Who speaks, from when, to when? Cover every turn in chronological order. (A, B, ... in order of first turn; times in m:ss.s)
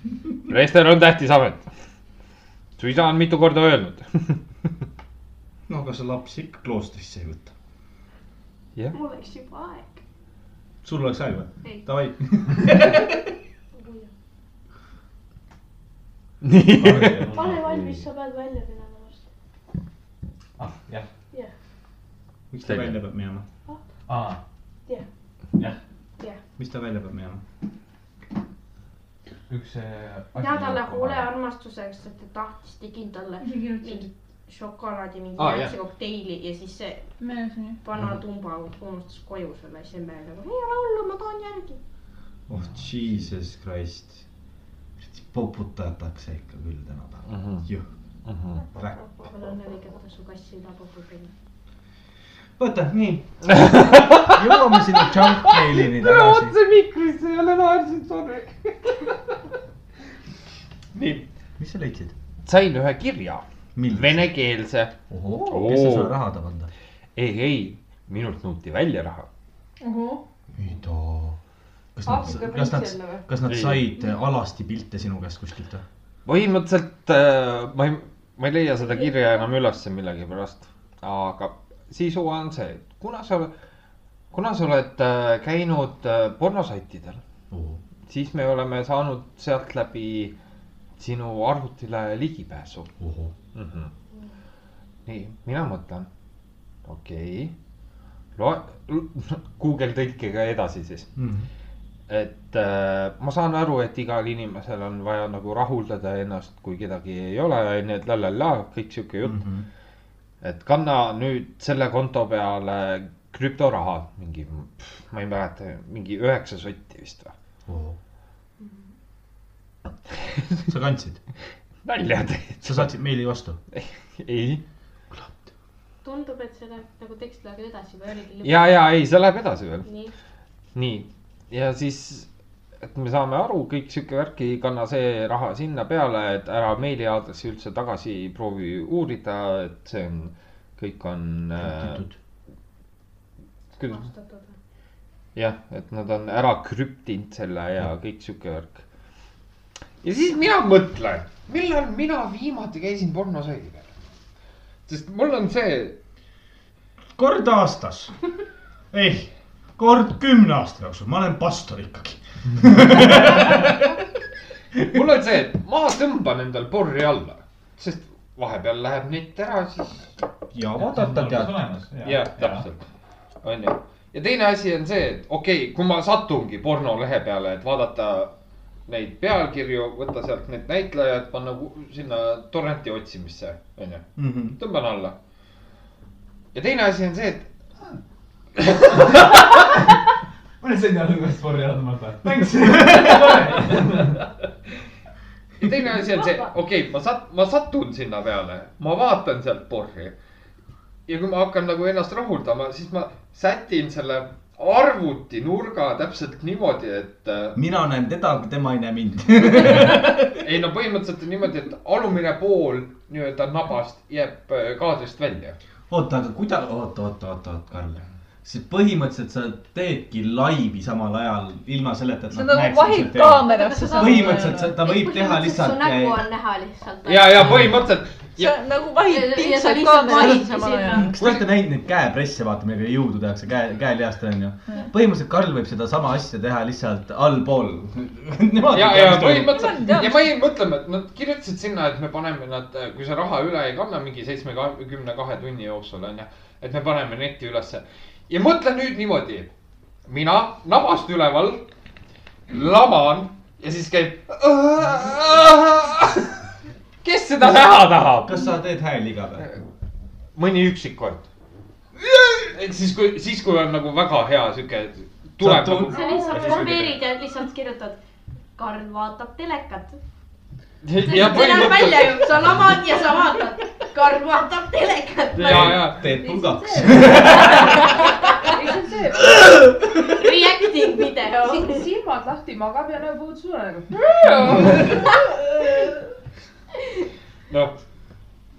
0:00.4-0:01.7 A
0:02.8-0:04.4 A
0:05.7-0:07.5 B
0:08.9-0:10.0 C
0:10.8-0:13.1 B
0:13.7-0:14.1 C
0:16.4-0:17.2 A
0:16.7-0:18.1 D
0:17.3-0:19.2 C
0:20.6-0:21.1 D
0:22.5-0:23.4 B
0:22.6-0:23.0 A
0:24.0-0:24.4 D
0:26.6-0:27.4 B
0:29.5-0:31.3 D
0:30.4-0:37.0 C
0:33.4-0:34.1 E
0:35.4-0:35.7 A
0:37.2-0:37.8 E
0:37.8-0:41.8 C
0:42.5-0:44.2 B
0:45.0-0:47.9 B
0:47.3-0:47.6 A
0:48.3-0:48.6 A
0:49.2-0:51.3 C
0:52.6-0:53.3 B
0:53.5-0:59.3 A
0:54.2-0:56.6 B
1:00.9-1:01.2 A
1:01.6-1:02.1 B
1:02.4-1:04.9 A
1:03.7-1:04.3 B
1:05.1-1:06.7 B
1:05.5-1:06.1 A
1:07.2-1:09.3 A
1:09.8-1:10.2 E
1:10.5-1:11.4 B
1:11.9-1:15.8 B
1:12.0-1:13.2 F
1:13.5-1:13.9 A
1:16.2-1:23.5 A
1:24.3-1:27.2 A
1:27.5-1:27.8 B
1:28.1-1:30.3 A
1:31.0-1:32.9 A
1:33.0-1:33.3 B
1:33.5-1:33.9 A
1:35.0-1:36.1 A
1:36.8-1:37.5 A
1:38.4-1:41.1 A
1:41.2-1:41.5 B
1:42.1-1:49.4 A
1:49.2-1:49.6 B
1:50.4-1:57.3 A
1:57.7-1:58.0 B
2:00.6-2:01.2 B
2:01.8-2:02.9 A
2:02.6-2:03.6 B
2:03.7-2:04.6 A
2:05.1-2:05.4 B
2:06.0-2:08.8 C
2:08.4-2:09.9 A
2:09.8-2:10.1 C
2:10.7-2:12.3 A
2:12.8-2:22.0 A
2:21.6-2:22.2 B
2:23.8-2:24.1 A
2:23.8-2:24.6 C
2:25.4-2:28.8 A
2:30.0-2:33.9 A
2:34.8-2:36.0 A
2:37.2-2:38.1 B
2:38.9-2:43.8 B
2:44.8-2:50.2 A
2:50.5-2:51.6 B
2:50.8-2:52.7 D
2:52.0-2:52.8 A
2:53.4-2:58.3 A
2:58.9-3:05.2 A
3:04.2-3:04.6 B
3:06.5-3:07.5 A
3:08.6-3:09.3 A
3:10.6-3:14.2 D
3:12.2-3:13.6 B
3:15.6-3:20.1 A
3:21.1-3:27.6 A
3:27.5-3:30.3 B
3:29.8-3:35.6 A
3:35.9-3:46.2 B
3:42.3-3:44.7 E
3:43.5-3:47.5 C
3:47.0-3:48.5 A
3:47.4-3:47.8 B
3:48.4-3:51.1 E
3:49.0-3:51.1 C
3:50.1-3:59.9 B
3:51.2-3:51.4 A
3:58.7-4:09.5 A
3:59.4-4:00.2 E
4:10.1-4:11.7 A
4:12.5-4:16.4 A
4:17.0-4:18.5 A
4:18.2-4:19.5 B
4:20.4-4:21.3 A
4:22.0-4:26.9 A
4:25.4-4:26.8 B
4:25.9-4:28.0 C
4:26.1-4:26.4 F
4:28.6-4:30.0 C
4:30.8-4:32.5 A
4:31.0-4:35.8 C
4:35.3-4:36.2 A
4:35.4-4:37.8 B
4:36.1-4:39.7 F
4:37.0-4:37.5 A
4:37.5-4:38.5 C
4:39.9-4:41.9 C
4:41.4-4:45.2 F
4:43.9-4:45.2 A
4:44.8-4:46.1 E
4:47.5-4:47.8 A